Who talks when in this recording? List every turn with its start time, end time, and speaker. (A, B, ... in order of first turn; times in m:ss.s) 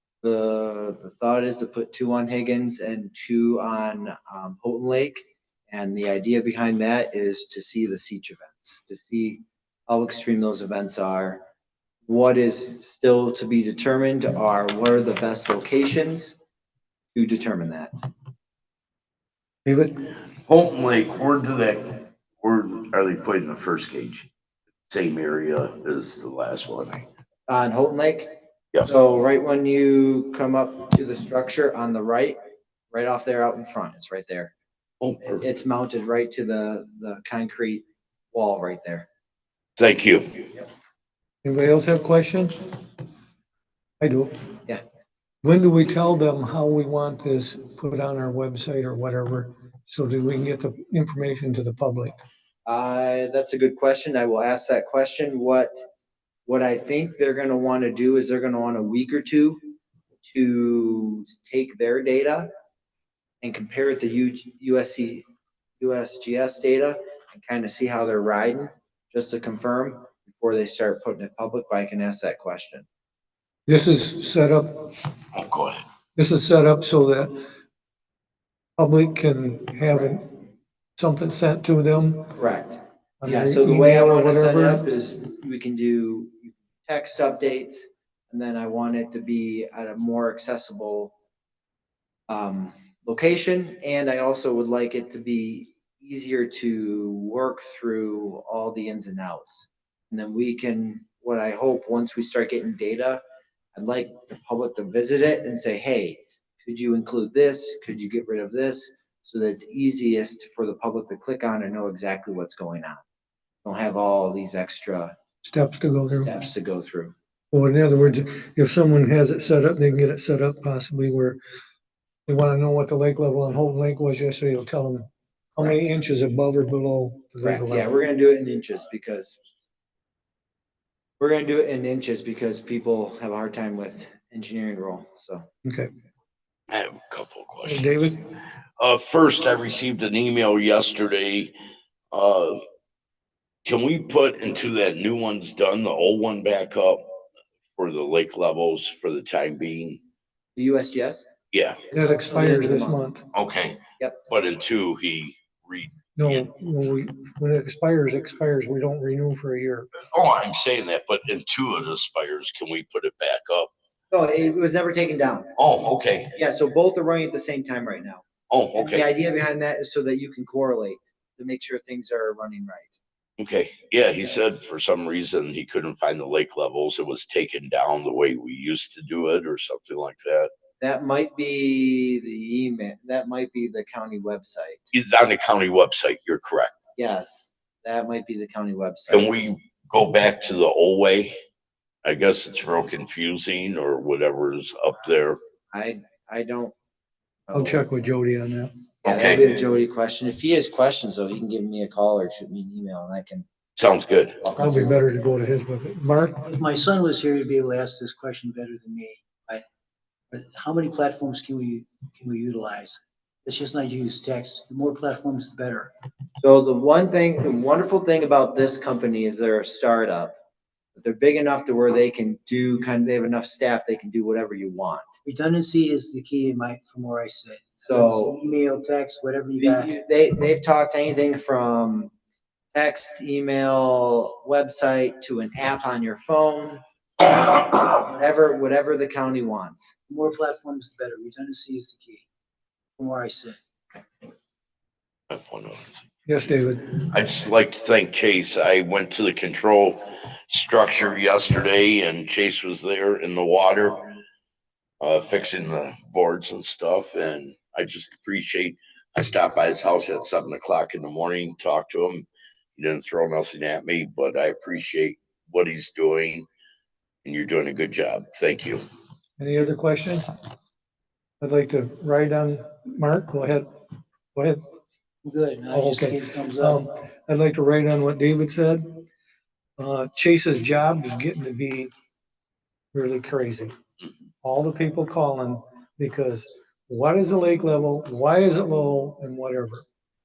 0:00.2-0:11.4 A
0:12.1-0:16.4 A
0:17.2-0:17.9 A
0:19.6-0:20.0 B
0:20.5-0:24.3 C
0:24.9-0:27.0 C
0:27.5-0:28.3 A
0:28.8-0:32.4 A
0:32.9-0:34.5 A
0:35.0-0:35.4 C
0:35.3-0:39.1 A
0:39.8-0:40.6 C
0:41.4-0:42.5 B
0:44.0-0:44.3 B
0:45.4-0:52.2 B
0:52.7-0:55.7 A
0:56.5-0:59.6 A
1:00.2-1:02.5 A
1:03.4-1:05.2 A
1:05.8-1:12.8 A
1:13.7-1:14.9 B
1:15.3-1:15.8 C
1:16.2-1:17.3 B
1:18.8-1:20.3 B
1:21.0-1:22.3 B
1:22.4-1:31.1 A
1:23.2-1:24.8 B
1:32.3-1:43.2 A
1:43.8-1:53.0 A
1:53.6-1:55.1 A
1:55.4-1:56.3 B
1:56.1-1:57.1 A
1:57.5-2:01.4 B
2:02.3-2:07.9 B
2:07.4-2:09.4 A
2:11.2-2:15.5 A
2:16.7-2:18.1 C
2:17.7-2:18.2 B
2:18.8-2:21.5 C
2:22.1-2:22.6 C
2:23.6-2:27.0 C
2:27.8-2:30.0 C
2:30.6-2:31.3 A
2:31.5-2:31.8 C
2:31.9-2:33.2 B
2:32.1-2:33.0 A
2:33.3-2:36.5 C
2:36.2-2:39.9 B
2:40.1-2:43.7 C
2:44.1-2:45.5 A
2:45.6-2:46.3 C
2:46.4-2:53.0 A
2:48.5-2:49.1 C
2:53.4-3:00.5 C
3:00.8-3:04.8 A
3:04.9-3:06.7 C
3:07.0-3:09.4 A
3:09.1-3:11.3 C
3:12.0-3:15.4 C
3:15.7-3:16.7 A
3:17.5-3:17.8 A
3:17.5-3:18.7 B
3:19.0-3:19.5 C
3:19.0-3:23.4 A
3:23.8-3:24.4 C
3:24.4-3:24.9 A
3:24.6-3:26.5 B
3:26.4-3:29.6 D
3:30.3-3:35.9 D
3:36.4-3:40.3 A
3:41.0-3:45.1 A
3:45.2-3:49.9 D
3:47.9-3:48.4 A
3:49.6-3:52.1 A
3:52.8-3:59.9 A
4:00.1-4:02.2 D
4:03.0-4:03.6 D
4:05.3-4:06.0 C
4:06.3-4:07.0 B
4:07.0-4:14.0 C
4:15.0-4:26.5 C
4:27.2-4:28.8 C
4:29.4-4:30.2 B
4:31.4-4:33.7 B
4:34.4-4:34.6 B
4:35.2-4:36.8 D
4:35.7-4:39.0 B
4:39.8-4:41.9 B
4:42.9-4:43.7 B
4:44.4-4:49.8 B